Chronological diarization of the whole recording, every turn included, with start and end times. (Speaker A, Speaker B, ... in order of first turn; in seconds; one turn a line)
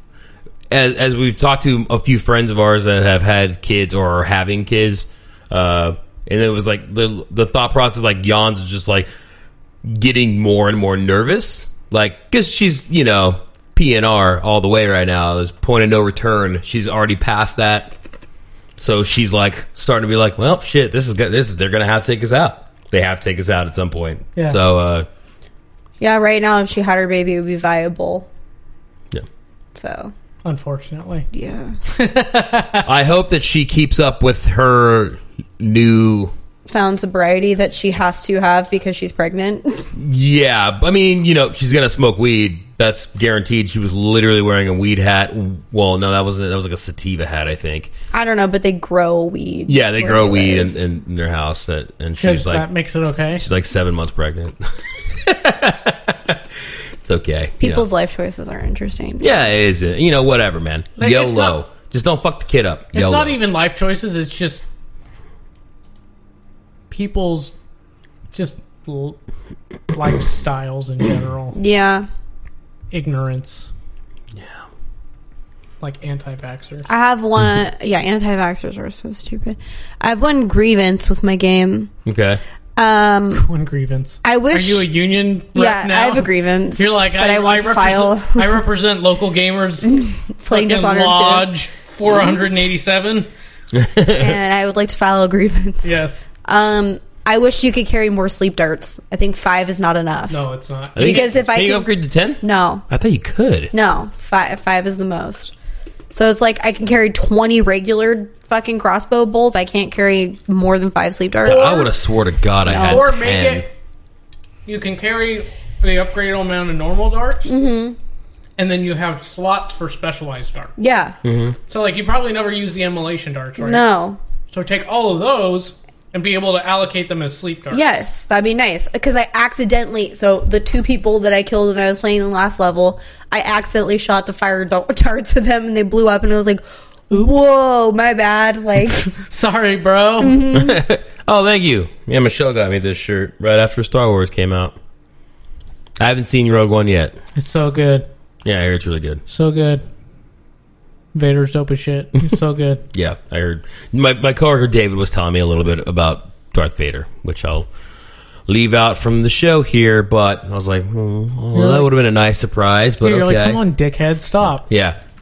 Speaker A: 0.7-9.1
Speaker A: 9.8-17.9
Speaker A: 18.8-25.1
Speaker B: 26.0-28.3
Speaker B: 29.7-30.1
Speaker C: 30.4-31.2
Speaker B: 31.3-31.8
Speaker C: 31.9-32.9
Speaker A: 32.8-36.3
Speaker B: 36.7-39.9
Speaker A: 39.9-47.9
Speaker B: 48.1-50.7
Speaker A: 49.7-52.7
Speaker C: 52.2-53.4
Speaker A: 53.4-54.6
Speaker A: 55.2-56.4
Speaker A: 57.0-57.9
Speaker B: 57.6-59.4
Speaker A: 59.2-63.4
Speaker C: 61.0-61.6
Speaker C: 62.9-64.7
Speaker C: 66.9-67.5
Speaker C: 68.3-69.2
Speaker C: 69.9-71.6
Speaker B: 71.5-72.1
Speaker C: 72.9-73.7
Speaker A: 74.3-74.6
Speaker C: 75.8-76.9
Speaker B: 76.8-81.9
Speaker A: 82.0-82.4
Speaker B: 82.8-83.5
Speaker C: 83.3-93.3
Speaker B: 84.2-84.9
Speaker B: 85.5-88.6
Speaker B: 89.8-91.5
Speaker A: 93.7-94.3
Speaker B: 94.1-100.4
Speaker C: 95.8-96.2
Speaker C: 100.3-101.3
Speaker A: 101.0-103.7
Speaker B: 101.0-101.9
Speaker B: 102.4-102.8
Speaker B: 103.7-105.5
Speaker B: 106.1-111.9
Speaker A: 111.4-113.6
Speaker C: 111.4-111.9
Speaker B: 112.7-113.1
Speaker C: 112.8-113.7
Speaker C: 114.7-117.5
Speaker B: 117.4-118.0
Speaker C: 118.6-120.7
Speaker B: 120.8-121.2
Speaker A: 121.2-121.5
Speaker C: 121.7-123.8
Speaker B: 123.6-124.2
Speaker C: 124.5-128.0
Speaker B: 127.7-139.1
Speaker C: 139.1-140.4
Speaker B: 140.2-140.8
Speaker A: 140.5-144.8
Speaker A: 146.0-147.2
Speaker C: 147.3-148.1
Speaker A: 148.4-149.2
Speaker C: 149.3-149.8
Speaker C: 151.1-152.8
Speaker A: 152.9-157.7
Speaker A: 158.5-163.6
Speaker C: 161.5-161.9
Speaker C: 163.0-164.7
Speaker A: 164.7-165.0